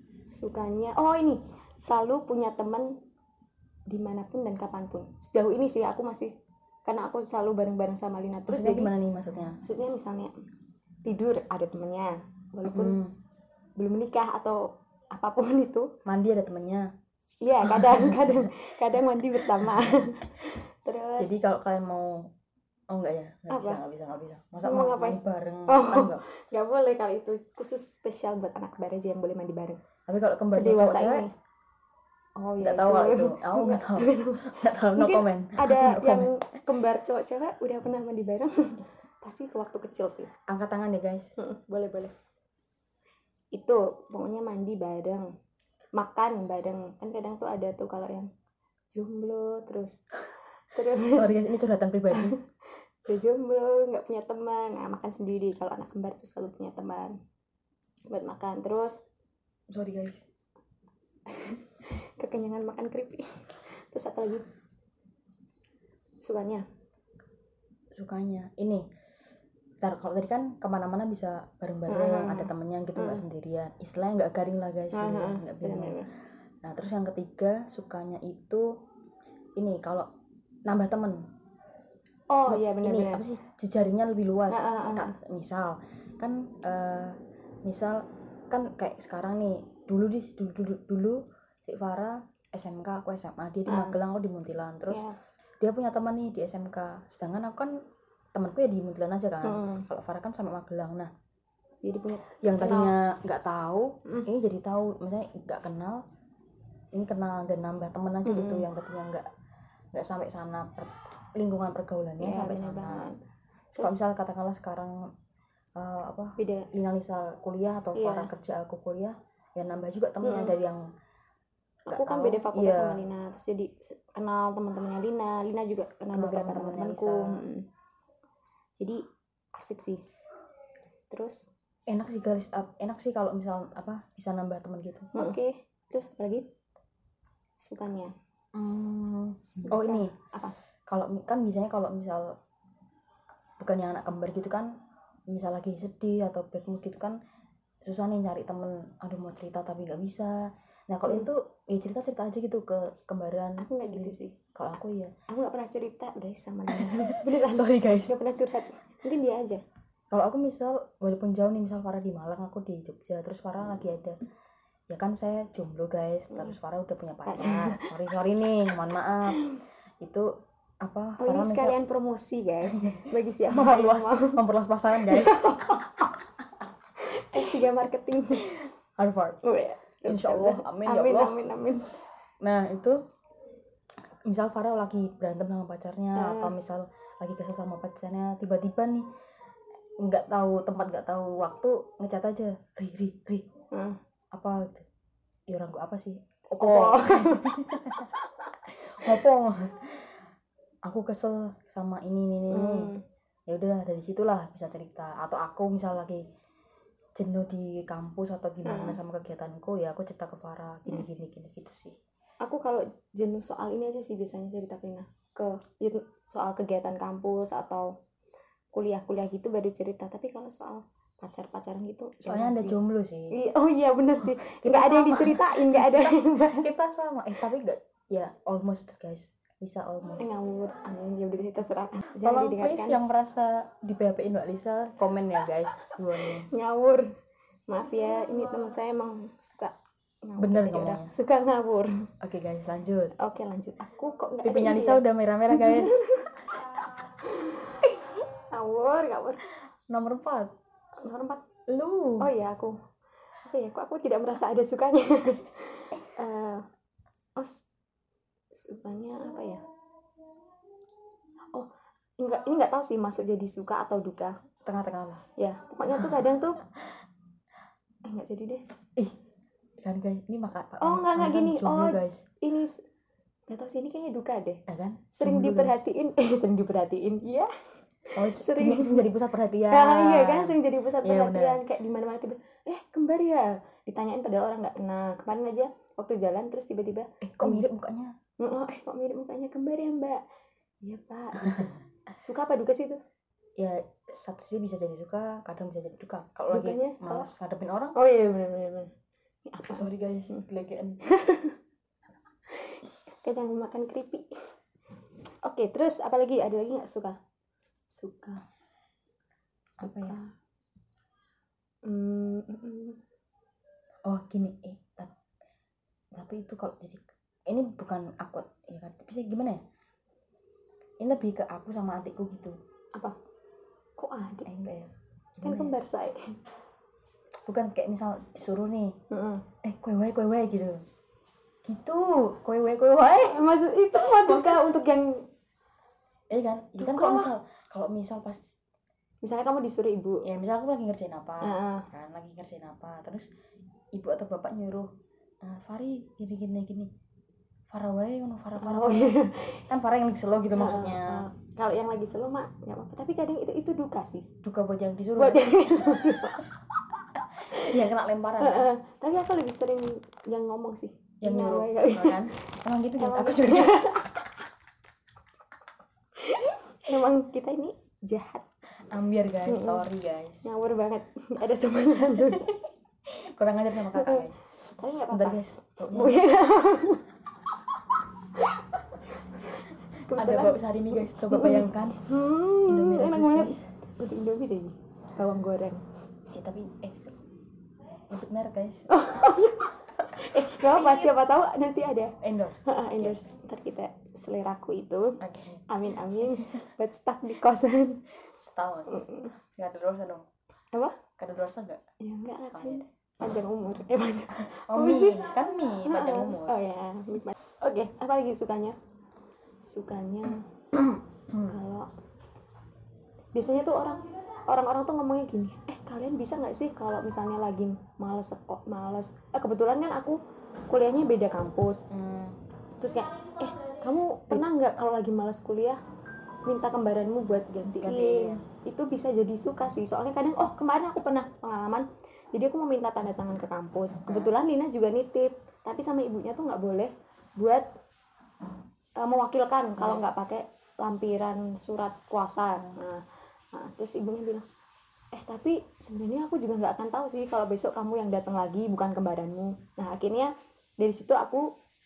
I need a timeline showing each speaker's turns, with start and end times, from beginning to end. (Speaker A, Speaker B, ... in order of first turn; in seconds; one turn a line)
Speaker A: 0.3-3.0
Speaker A: 3.9-6.3
Speaker A: 6.8-8.9
Speaker B: 8.5-9.6
Speaker A: 9.6-10.3
Speaker A: 11.0-13.0
Speaker B: 12.7-13.1
Speaker A: 13.8-15.9
Speaker B: 16.0-16.9
Speaker A: 17.4-21.3
Speaker B: 17.7-18.5
Speaker B: 19.4-20.0
Speaker B: 21.2-22.3
Speaker B: 22.9-26.2
Speaker A: 23.5-23.8
Speaker A: 24.6-29.8
Speaker B: 30.1-31.3
Speaker A: 30.5-31.3
Speaker A: 32.4-40.3
Speaker B: 32.6-36.3
Speaker B: 40.5-41.3
Speaker A: 41.4-42.1
Speaker A: 43.5-45.3
Speaker A: 45.9-48.3
Speaker A: 48.9-50.0
Speaker A: 50.7-51.4
Speaker B: 51.0-52.4
Speaker A: 52.1-52.5
Speaker A: 53.0-57.2
Speaker A: 58.1-59.0
Speaker B: 59.7-60.2
Speaker A: 61.3-64.5
Speaker A: 66.2-66.6
Speaker B: 67.9-68.9
Speaker B: 69.8-76.0
Speaker A: 71.9-73.2
Speaker A: 74.9-76.1
Speaker B: 76.6-78.7
Speaker B: 79.6-80.1
Speaker B: 80.7-81.2
Speaker A: 82.3-83.2
Speaker B: 82.5-95.0
Speaker A: 84.5-85.1
Speaker A: 93.7-94.0
Speaker A: 94.9-95.2
Speaker B: 95.6-97.7
Speaker B: 98.3-101.1
Speaker A: 99.4-99.8
Speaker A: 101.8-102.9
Speaker B: 102.4-106.0
Speaker B: 106.9-109.3
Speaker A: 108.2-108.6
Speaker B: 109.9-113.1
Speaker A: 112.2-113.2
Speaker B: 113.8-115.1
Speaker B: 115.8-120.9
Speaker A: 116.4-116.7
Speaker A: 117.9-118.3
Speaker A: 120.2-120.5
Speaker A: 121.9-127.6
Speaker B: 121.9-123.1
Speaker B: 126.1-127.4
Speaker A: 129.5-130.0
Speaker A: 131.1-131.4
Speaker B: 131.9-135.4
Speaker A: 135.1-136.4
Speaker A: 137.6-138.1
Speaker B: 138.5-140.1
Speaker A: 139.5-140.6
Speaker B: 140.8-142.3
Speaker B: 143.6-144.7
Speaker B: 145.3-147.2
Speaker B: 147.8-155.1
Speaker A: 153.6-154.4
Speaker A: 155.3-159.6
Speaker B: 156.7-158.2
Speaker B: 160.1-164.2
Speaker B: 164.9-169.4
Speaker A: 167.2-167.9
Speaker A: 169.2-169.6
Speaker B: 170.0-170.3
Speaker B: 170.8-171.8
Speaker A: 171.2-174.4
Speaker B: 172.8-176.1
Speaker A: 174.9-175.9
Speaker A: 177.0-178.5
Speaker B: 178.4-179.4
Speaker A: 179.4-181.9
Speaker B: 180.0-181.4
Speaker B: 182.4-183.0
Speaker B: 184.2-189.1
Speaker A: 186.2-186.5
Speaker B: 190.0-193.4
Speaker A: 193.7-194.0
Speaker B: 194.3-194.8
Speaker B: 195.5-198.1
Speaker A: 196.6-198.5
Speaker B: 198.7-200.2
Speaker B: 200.8-202.9
Speaker A: 202.5-203.0
Speaker B: 203.5-206.2
Speaker B: 207.2-212.0
Speaker A: 208.6-209.0
Speaker A: 212.4-217.9
Speaker A: 218.7-222.8
Speaker B: 222.2-223.3
Speaker A: 223.3-226.7
Speaker B: 224.3-230.3
Speaker A: 230.2-233.0
Speaker B: 232.2-236.5
Speaker A: 235.8-237.1
Speaker A: 237.7-242.1
Speaker B: 240.4-241.1
Speaker B: 242.2-243.1
Speaker A: 243.1-249.4
Speaker B: 244.4-246.1
Speaker B: 249.9-250.5
Speaker A: 251.0-251.4
Speaker B: 251.7-252.3
Speaker A: 252.2-252.8
Speaker A: 253.4-256.6
Speaker A: 257.4-257.6
Speaker A: 258.5-259.6
Speaker A: 261.5-264.4
Speaker B: 264.6-265.2
Speaker A: 265.4-266.6
Speaker A: 268.0-268.6
Speaker B: 269.8-272.2
Speaker A: 270.8-272.8
Speaker A: 273.5-274.6
Speaker B: 274.7-275.8
Speaker A: 275.1-277.5
Speaker A: 278.0-279.1
Speaker B: 278.1-281.6
Speaker A: 279.7-287.6
Speaker B: 287.2-288.1
Speaker A: 288.4-290.2
Speaker A: 290.8-293.0
Speaker B: 293.6-297.9
Speaker A: 296.5-297.3
Speaker A: 297.9-298.9
Speaker A: 299.4-300.4
Speaker B: 299.7-301.0
Speaker A: 301.0-301.6
Speaker A: 302.5-304.5
Speaker A: 305.3-307.2
Speaker A: 307.9-308.4
Speaker B: 309.8-310.2
Speaker A: 309.8-310.3
Speaker A: 311.8-313.0
Speaker B: 314.0-315.1
Speaker B: 316.1-319.6
Speaker B: 321.0-322.6
Speaker A: 324.0-324.5
Speaker B: 324.4-325.7
Speaker A: 325.4-326.3
Speaker B: 327.4-328.9
Speaker A: 329.1-329.4
Speaker B: 329.6-330.8
Speaker B: 331.6-333.4
Speaker A: 333.1-335.3
Speaker B: 333.9-334.6
Speaker B: 336.3-338.5
Speaker A: 336.8-337.3
Speaker A: 339.2-340.2
Speaker B: 340.2-343.3
Speaker A: 341.4-341.9
Speaker B: 343.9-344.9
Speaker B: 345.4-346.9
Speaker B: 347.7-351.2
Speaker A: 348.6-349.6
Speaker A: 350.5-354.3
Speaker B: 354.4-356.2
Speaker A: 355.2-356.5
Speaker A: 357.1-357.8
Speaker B: 357.4-358.7
Speaker A: 358.4-362.4
Speaker B: 361.2-364.2
Speaker A: 363.0-364.3
Speaker A: 366.1-368.5
Speaker B: 368.9-370.5
Speaker A: 369.4-369.8
Speaker A: 370.4-372.6
Speaker B: 372.1-372.5
Speaker B: 373.1-374.4
Speaker A: 373.9-377.1
Speaker B: 375.1-376.2
Speaker A: 378.3-385.8
Speaker B: 380.1-383.7
Speaker B: 386.3-387.2
Speaker B: 388.1-388.9
Speaker A: 388.9-398.0
Speaker B: 390.1-391.1
Speaker B: 392.2-393.2
Speaker B: 395.2-395.6
Speaker B: 396.3-396.6
Speaker B: 398.3-400.3
Speaker A: 398.9-399.3
Speaker A: 400.7-401.0
Speaker B: 401.2-401.8
Speaker A: 402.0-408.8
Speaker B: 402.5-402.9
Speaker B: 404.4-406.6
Speaker A: 409.6-410.5
Speaker B: 410.7-411.6
Speaker A: 411.4-411.9
Speaker A: 413.3-421.8
Speaker B: 421.9-422.4
Speaker A: 422.8-425.8
Speaker A: 426.4-437.7
Speaker B: 427.8-428.4
Speaker A: 439.0-444.4
Speaker A: 445.1-451.5